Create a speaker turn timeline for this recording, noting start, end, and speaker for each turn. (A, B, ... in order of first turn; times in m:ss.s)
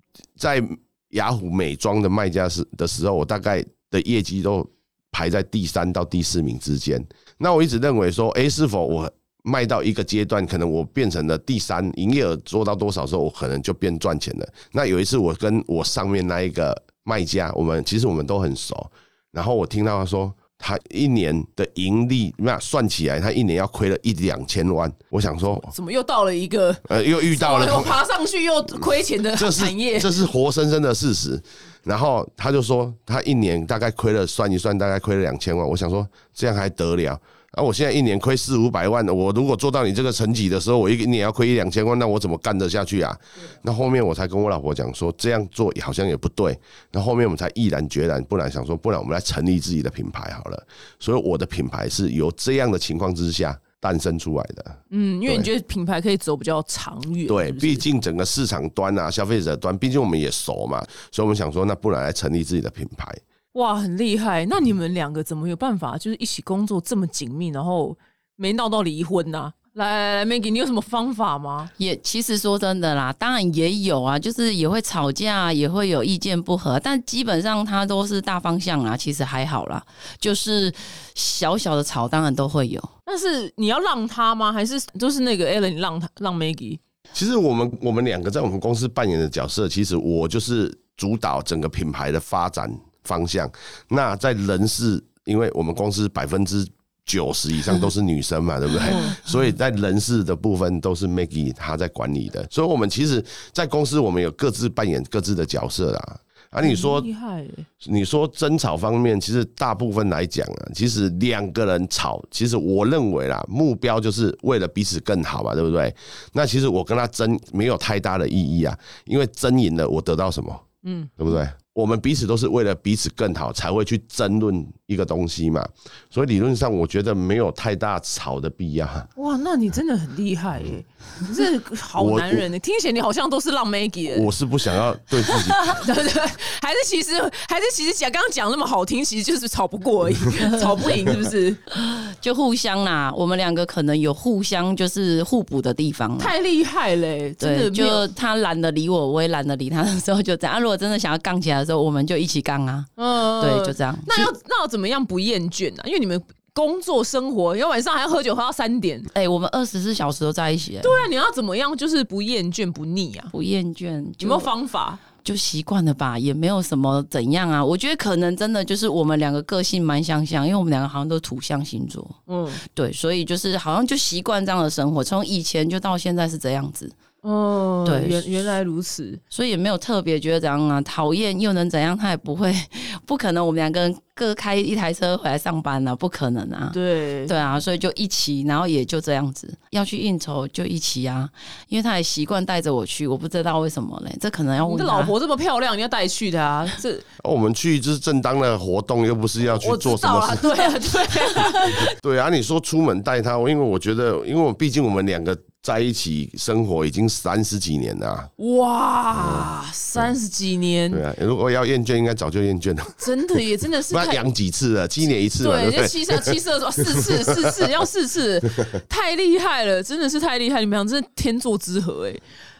0:00.4-0:25.7 A
0:25.6-0:30.2 B
0:26.9-0:28.0 A
0:29.3-0:55.5 A
0:54.9-0:57.8 B
0:57.3-1:03.2 A
1:03.5-1:11.7 B
1:11.8-1:22.9 C
1:23.1-1:26.8 B
1:27.1-1:47.1 A
1:38.9-1:39.2 B
1:46.6-1:47.6 B
1:47.8-2:00.6 A
2:00.8-2:01.1 B
2:01.2-2:09.1 A
2:09.2-2:14.3 B
2:12.0-2:12.5 A
2:14.1-2:15.9 A
2:15.3-2:21.6 B
2:21.7-2:26.3 C
2:26.2-2:28.0 B
2:27.4-2:34.1 C
2:33.0-2:39.1 B
2:39.1-2:41.0 C
2:40.8-2:43.3 B
2:43.3-2:44.5 C
2:44.2-2:45.0 B
2:45.2-2:56.9 C
2:52.3-2:52.6 B
2:57.2-2:59.2 B
2:57.8-2:58.2 C
2:59.3-3:15.1 C
3:06.7-3:07.4 B
3:14.6-3:17.0 B
3:17.2-3:20.8 A
3:19.6-3:21.9 B
3:21.4-3:28.3 A
3:28.4-3:31.0 B
3:29.1-3:30.1 A
3:30.9-3:37.7 A
3:33.0-3:34.2 B
3:35.4-3:42.2 B